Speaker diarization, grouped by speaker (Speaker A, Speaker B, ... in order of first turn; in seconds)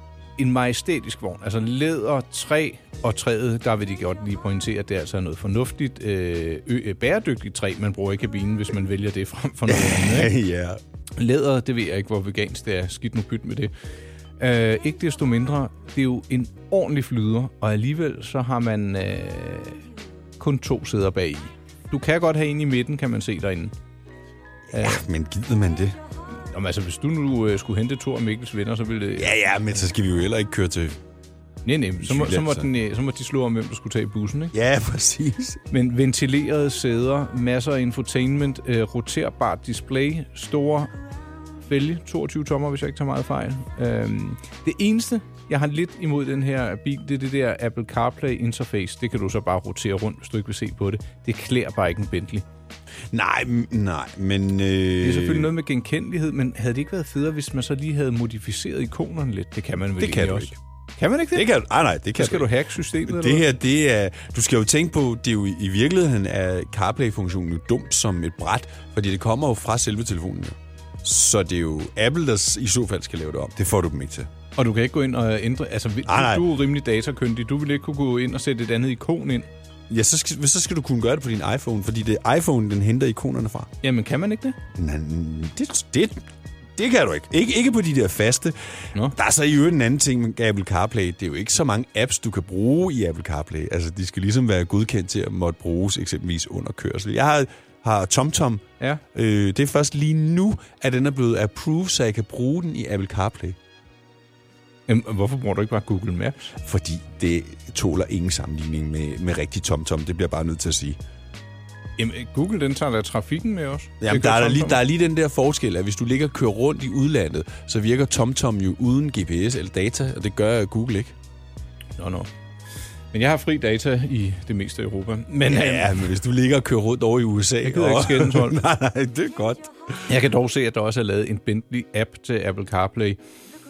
Speaker A: 0.4-10.3, 11.2-13.7, 14.4-19.8, 20.4-23.7, 24.7-25.0, 26.3-29.4, 31.6-34.5, 35.7-40.9, 41.6-52.5, 55.0-61.5, 62.1-63.5, 74.6-79.5, 83.8-84.6, 104.9-106.5, 112.0-114.8, 122.0-122.3, 123.1-125.9, 127.6-128.6, 130.1-133.2
Speaker B: 9.7-10.8, 24.7-26.0, 29.2-31.0, 32.0-32.7, 34.5-35.6, 53.1-55.5, 60.0-60.5, 61.3-62.5, 63.0-74.3, 76.0-76.5, 79.9-83.7, 84.8-86.2, 86.8-103.6, 106.6-111.0, 114.0-121.2, 125.5-129.7